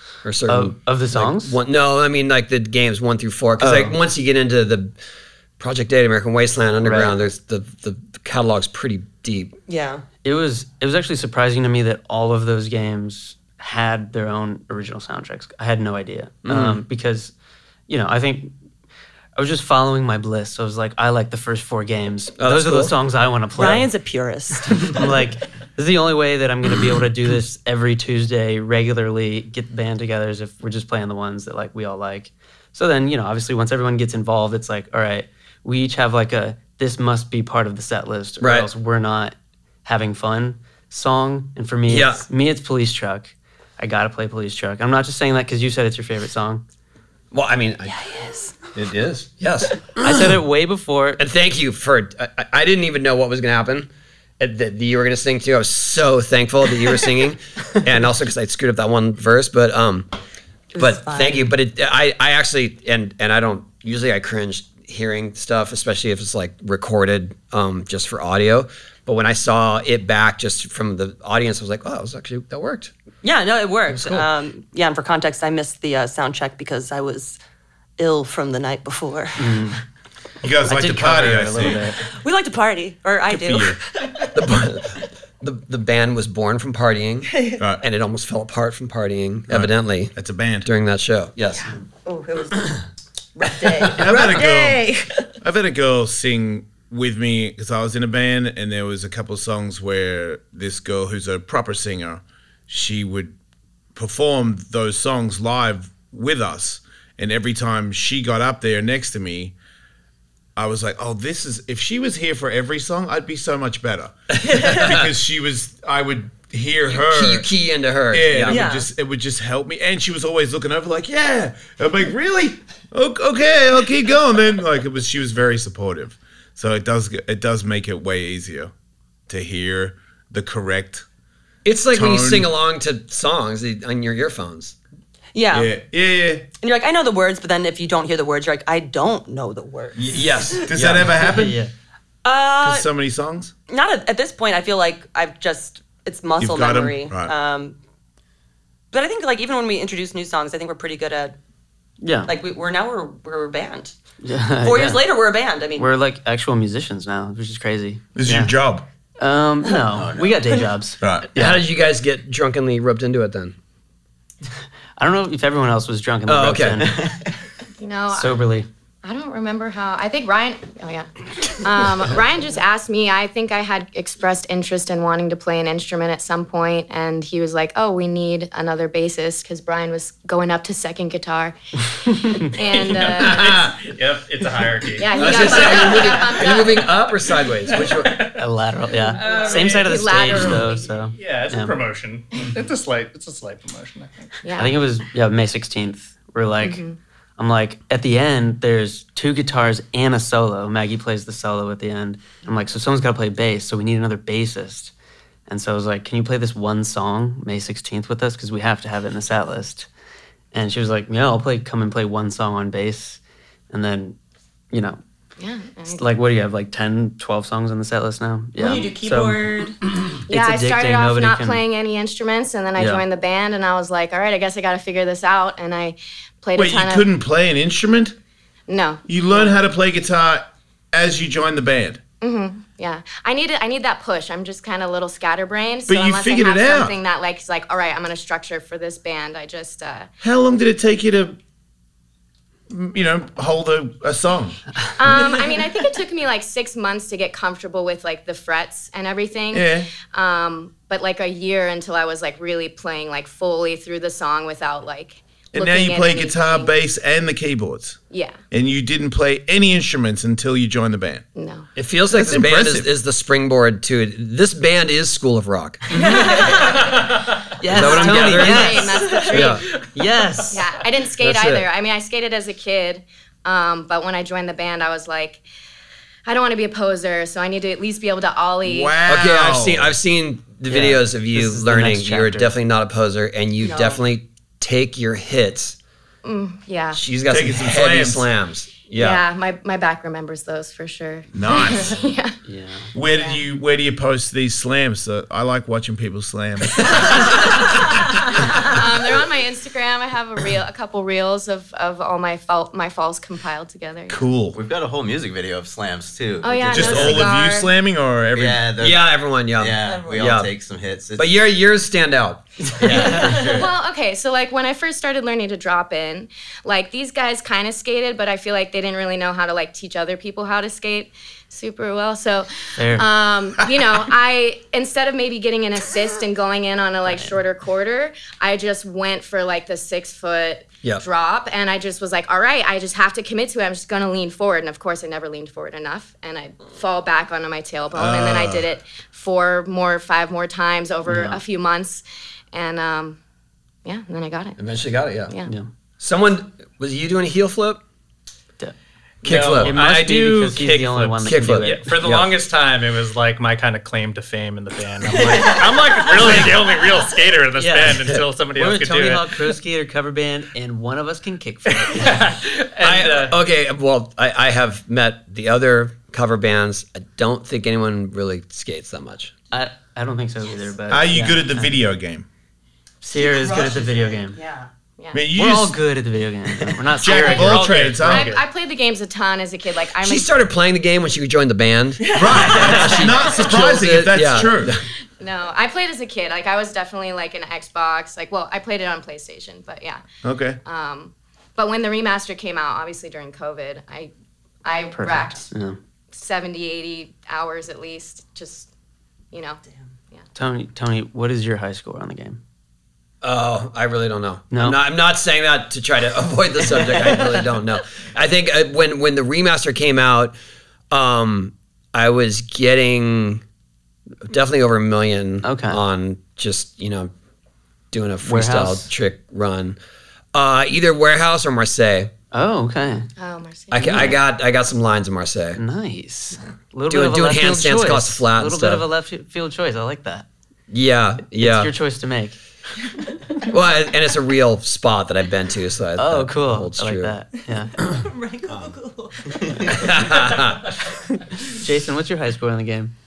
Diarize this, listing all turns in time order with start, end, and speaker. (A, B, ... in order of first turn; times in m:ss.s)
0:00.2-0:04.9 A
0:00.5-0:01.6 B
0:03.6-0:03.9 B
0:05.6-0:09.6 A
0:06.8-0:07.2 B
0:09.7-0:10.0 C
0:10.2-0:17.3 B
0:16.4-0:16.8 A
0:17.9-0:18.5 B
0:19.4-0:23.9 B
0:22.4-0:23.0 A
0:23.6-0:25.0 C
0:24.7-0:46.6 B
0:38.4-0:38.7 A
0:41.9-0:42.2 A
0:47.3-0:47.9 A
0:47.9-0:48.6 C
0:48.8-0:50.4 A
0:50.0-0:51.2 B
0:51.2-1:00.1 A
1:00.7-1:01.5 C
1:00.8-1:12.9 A
1:13.2-1:17.4 C
1:13.9-1:14.3 A
1:18.0-1:19.8 C
1:19.4-1:19.8 B
1:20.4-1:21.9 D
1:20.6-1:22.0 B
1:22.0-1:24.3 C
1:23.3-1:23.8 D
1:24.3-1:31.7 A
1:27.3-1:27.6 C
1:29.5-1:30.7 D
1:31.6-1:32.8 C
1:33.4-1:35.3 C
1:33.9-1:34.8 D
1:35.4-1:43.4 D
1:44.0-1:49.5 D
1:50.6-1:57.5 D
1:54.3-1:55.1 A
1:56.9-1:58.7 A
1:58.1-2:08.7 D
1:58.5-1:58.9 C
2:09.3-2:11.0 D
2:11.6-2:14.8 A
2:11.9-2:12.5 D
2:15.4-2:15.7 C
2:15.5-2:16.4 D
2:16.6-2:20.6 C
2:20.0-2:21.2 A
2:20.7-2:21.6 D
2:21.2-2:21.7 B
2:22.2-2:22.9 C
2:22.6-2:23.5 D
2:23.7-2:27.8 C
2:26.4-2:27.3 D
2:28.9-2:31.4 C
2:32.0-2:32.3 B
2:32.3-2:34.0 C
2:34.2-2:35.0 B
2:34.6-2:35.9 C
2:35.8-2:38.6 B
2:38.2-2:38.9 D
2:39.2-2:41.6 B
2:39.9-2:40.4 E
2:41.0-2:41.3 D
2:41.4-2:43.6 A
2:45.0-2:47.2 B
2:46.3-2:47.0 A
2:47.8-2:48.4 F
2:48.1-2:48.7 B
2:49.0-3:01.6 F
3:02.1-3:02.5 B
3:02.1-3:03.6 F
3:02.5-3:08.5 G
3:03.2-3:03.8 D
3:05.0-3:06.9 F
3:05.2-3:08.3 A
3:08.4-3:11.8 B
3:09.0-3:14.4 G
3:09.2-3:10.8 F
3:14.4-3:14.8 F
3:14.6-3:16.8 B
3:16.6-3:17.0 F
3:17.4-3:24.9 B
3:25.5-3:29.9 B
3:30.5-3:33.2 B
3:33.7-3:34.2 B
3:34.7-3:35.0 B
3:35.4-3:36.0 F
3:35.9-3:39.4 B
3:38.6-3:39.8 C
3:40.3-3:41.6 B
3:40.3-3:47.1 F
3:42.8-3:43.0 B
3:46.6-3:48.1 D
3:48.7-3:49.6 F
3:49.1-3:52.0 D
3:52.2-4:00.1 F
3:55.9-3:57.0 D
4:00.2-4:01.4 D
4:02.7-4:04.6 D
4:05.0-4:16.7 F
4:09.5-4:09.9 D
4:15.5-4:18.0 D
4:18.1-4:18.4 F
4:18.5-4:21.2 D
4:21.4-4:21.7 F
4:21.8-4:25.8 A
4:22.1-4:22.9 D
4:25.9-4:26.9 B
4:26.1-4:26.6 C
4:27.5-4:30.7 B
4:27.7-4:29.6 F
4:27.7-4:29.6 A
4:30.5-4:35.4 F
4:31.2-4:31.7 A
4:36.3-4:39.0 F
4:38.6-4:39.9 D
4:39.1-4:45.8 A
4:40.7-4:42.6 B
4:43.6-4:44.0 F
4:46.2-4:47.0 F
4:46.9-4:49.2 A
4:47.3-4:48.3 D
4:49.0-4:52.4 F
4:51.3-4:52.0 D
4:52.4-4:52.9 B
4:53.0-4:58.8 D
4:53.1-4:53.4 F
4:56.8-5:04.2 F
5:04.1-5:04.6 D
5:04.5-5:07.3 E
5:06.4-5:07.7 F
5:06.7-5:08.7 D
5:08.3-5:11.3 E
5:08.8-5:10.5 A
5:09.8-5:10.3 C
5:11.2-5:13.7 A
5:12.7-5:13.4 B
5:12.9-5:43.2 F
5:22.8-5:23.1 B
5:27.1-5:27.4 B
5:37.9-5:38.7 D
5:41.1-5:41.4 B
5:43.8-5:44.6 F
5:44.6-5:45.4 A
5:46.0-5:47.8 A
5:49.2-5:50.9 G
5:49.2-5:52.4 A
5:49.6-5:52.0 B
5:51.6-5:59.5 G
5:57.6-6:02.3 B
6:01.7-6:03.4 G
6:02.8-6:09.3 A
6:09.5-6:11.7 B
6:10.9-6:12.3 D
6:13.0-6:14.4 B
6:13.1-6:14.7 C
6:15.0-6:15.2 F
6:15.1-6:15.8 D
6:15.3-6:17.8 B
6:17.0-6:18.4 D
6:17.2-6:18.5 G
6:18.0-6:20.3 F
6:20.0-6:24.8 A
6:22.0-6:22.9 C
6:22.2-6:24.8 D
6:25.2-6:30.0 F
6:30.2-6:30.6 D
6:30.6-6:34.1 F
6:34.6-6:35.5 F
6:35.0-6:35.8 B
6:36.1-6:38.7 F
6:39.3-6:39.6 F
6:40.4-6:42.4 B
6:43.2-6:50.4 A
6:44.5-6:44.8 B
6:50.9-6:53.4 A
6:54.3-6:57.1 A
6:55.4-6:55.8 B
6:57.9-6:59.8 A
6:58.2-6:58.9 B
7:00.3-7:02.1 A
7:02.3-7:03.1 B
7:03.2-7:04.1 F
7:03.7-7:05.6 A
7:03.8-7:04.2 B
7:05.6-7:10.3 B
7:06.9-7:08.9 A
7:10.7-7:11.7 A
7:11.4-7:12.4 B
7:13.4-7:17.2 A
7:16.0-7:17.8 B
7:17.7-7:20.0 C
7:19.6-7:20.8 A
7:21.4-7:22.9 B